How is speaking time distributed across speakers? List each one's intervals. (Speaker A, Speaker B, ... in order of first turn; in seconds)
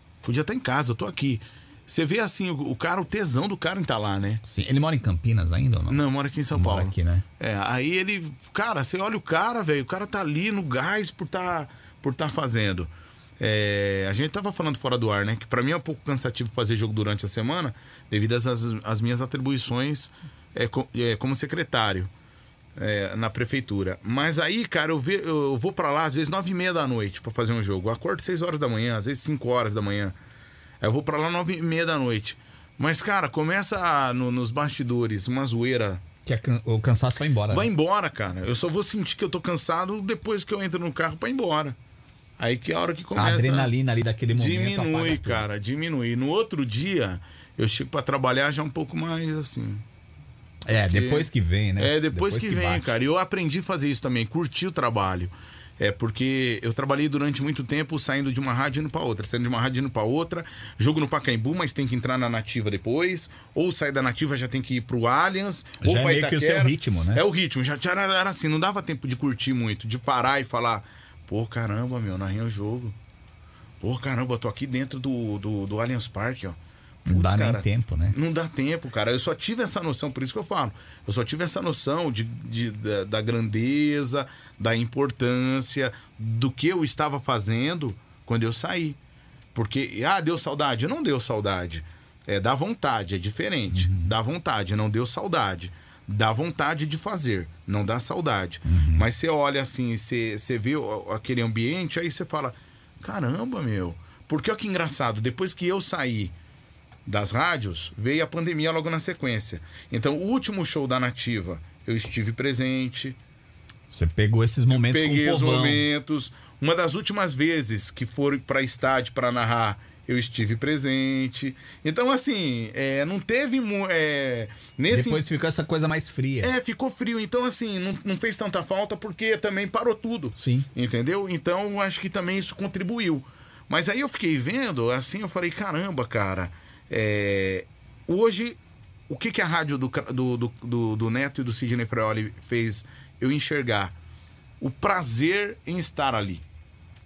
Speaker A: 0.2-4.4, 5.9-22.1, 22.8-30.1, 30.8-36.0, 37.5-41.8, 42.4-43.7, 44.4-49.8, 50.9-73.0, 73.8-89.0, 89.5-106.3, 107.1-113.2, 114.7-125.2, 126.4-138.6, 139.1-143.9, 144.6-146.4
Speaker B: 4.4-7.2, 36.3-37.7, 43.1-45.5, 50.7-53.0, 65.8-67.2, 77.1-78.2, 93.7-94.1, 98.7-99.1, 113.9-115.9, 124.9-126.5, 130.4-130.7